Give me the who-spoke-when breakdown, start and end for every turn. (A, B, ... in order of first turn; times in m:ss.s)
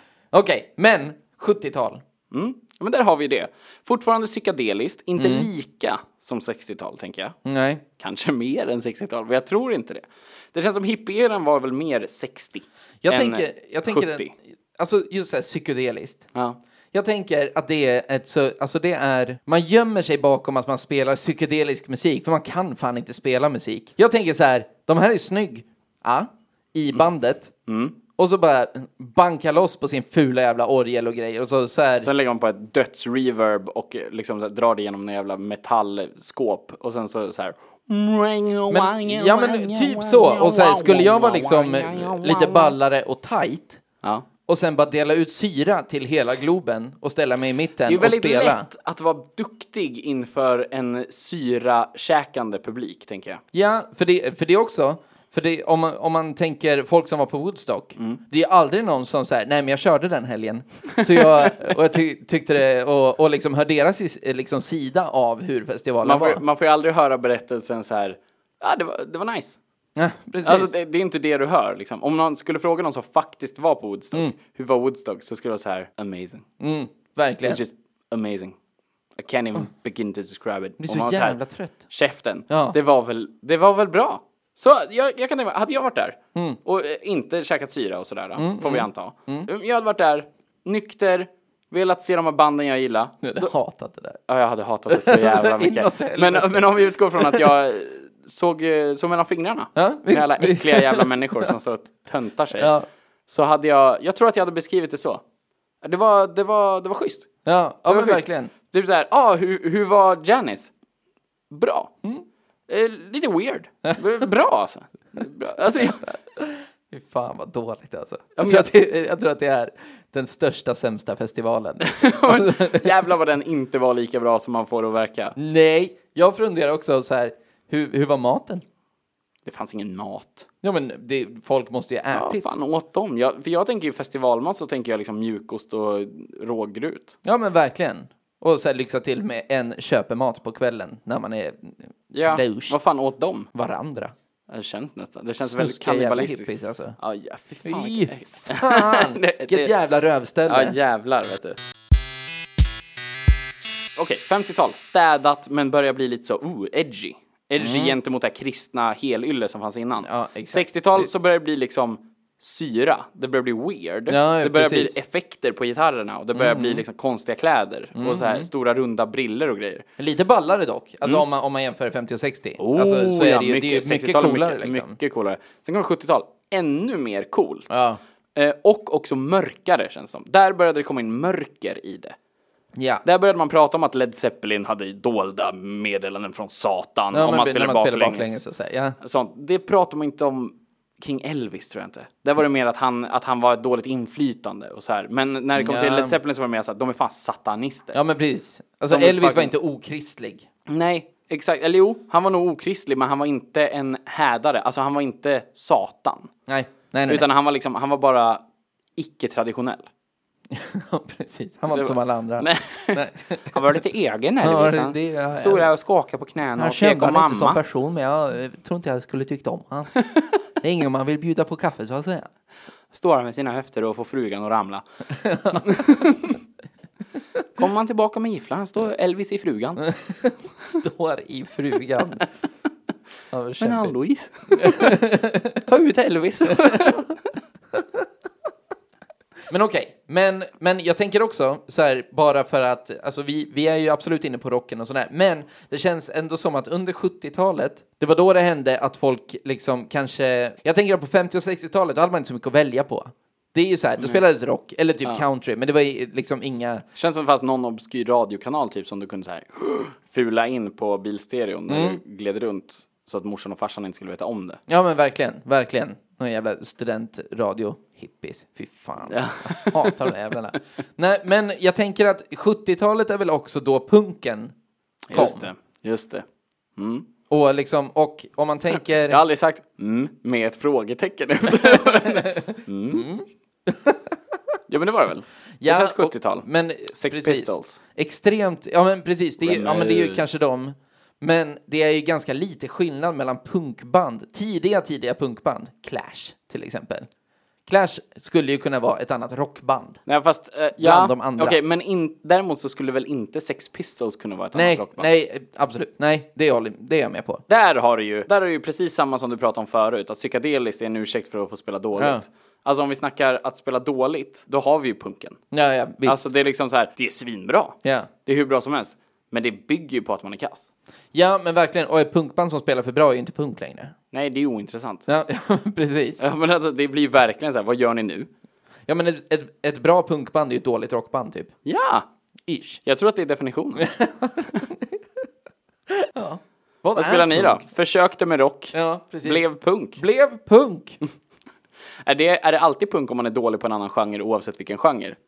0:00.3-0:02.0 A
0:02.3-0:07.4 B
0:05.2-0:05.5 A
0:07.4-0:07.8 A
0:08.0-0:14.3 B
0:13.0-0:16.2 A
0:16.9-0:27.5 A
0:27.7-0:28.0 B
0:28.2-0:32.1 A
0:32.0-0:42.7 B
0:38.7-0:43.8 A
0:44.4-0:48.7 A
0:47.8-0:53.4 B
0:53.5-1:06.4 A
1:06.0-1:09.6 B
1:10.0-1:10.7 A
1:10.4-1:16.4 B
1:16.6-1:17.6 A
1:17.4-1:18.6 B
1:19.2-1:33.5 B
1:20.8-1:21.8 A
1:22.5-1:22.8 A
1:28.4-1:29.5 A
1:33.2-1:34.2 A
1:34.3-1:42.7 B
1:34.9-1:37.5 A
1:39.7-1:41.5 A
1:42.6-1:42.8 A
1:43.3-1:45.2 B
1:45.8-1:47.3 B
1:47.4-1:48.5 A
1:47.9-1:50.7 B
1:51.5-1:51.9 B
1:52.7-1:56.1 B
1:55.5-2:02.9 A
1:58.4-1:58.7 B
2:01.8-2:05.3 B
2:05.4-2:08.6 A
2:09.4-2:10.4 B
2:10.6-2:12.5 A
2:12.1-2:17.2 B
2:17.2-2:22.8 A
2:22.1-2:23.5 B
2:23.5-2:24.1 A
2:24.5-2:29.7 B
2:25.4-2:27.0 A
2:27.6-2:30.8 A
2:30.4-2:31.6 B
2:34.0-2:49.8 B
2:37.6-2:38.0 A
2:40.0-2:41.1 A
2:44.1-2:44.9 A
2:46.3-2:46.8 A
2:48.0-2:48.5 A
2:50.0-2:55.0 A
2:52.6-2:57.8 B
2:57.7-2:58.0 A
2:58.4-3:02.2 B
3:02.7-3:03.0 A
3:03.0-3:08.4 B
3:07.1-3:09.0 A
3:09.0-3:18.0 B
3:15.6-3:16.2 A
3:17.9-3:20.4 A
3:18.9-3:19.5 B
3:20.7-3:26.3 B
3:26.5-3:27.2 A
3:27.1-3:28.4 B
3:29.0-3:29.9 B
3:30.5-3:33.6 A
3:31.7-3:37.6 B
3:34.4-3:35.7 A
3:36.6-3:39.9 A
3:40.6-3:42.3 A
3:42.9-3:44.8 B
3:45.1-3:46.1 A
3:45.5-3:46.4 B
3:47.6-3:49.9 B
3:49.8-3:52.2 A
3:53.3-3:53.9 A
3:53.6-3:54.9 B
3:54.5-3:55.6 A
3:55.6-3:57.1 B
3:56.4-3:57.1 A
3:57.7-3:58.0 A
3:59.5-4:16.8 A
4:17.0-4:24.6 B
4:21.7-4:22.0 A
4:24.7-4:34.5 A
4:29.1-4:30.1 B
4:35.1-4:36.2 B
4:35.1-4:35.5 A
4:36.8-4:37.0 B
4:37.3-4:39.2 A
4:39.1-4:43.1 B
4:41.6-4:44.2 A
4:44.7-4:47.8 B
4:45.6-4:57.1 A
4:49.4-4:50.4 B
4:57.7-5:00.0 A
5:00.0-5:05.1 B
5:00.8-5:01.6 A
5:04.5-5:07.4 A
5:07.5-5:15.4 B
5:12.0-5:12.2 A
5:15.5-5:16.2 A
5:16.0-5:20.7 B
5:17.8-5:18.1 A
5:21.1-5:23.9 A
5:24.1-5:25.0 B
5:25.1-5:26.2 A
5:26.2-5:28.3 B
5:28.9-5:31.5 A
5:31.6-5:32.0 B
5:32.5-5:32.8 A
5:32.8-5:33.9 B
5:33.8-5:35.0 A
5:35.9-5:37.6 A
5:37.0-5:40.0 B
5:38.7-5:39.4 A
5:40.0-5:41.0 A
5:42.0-5:45.2 B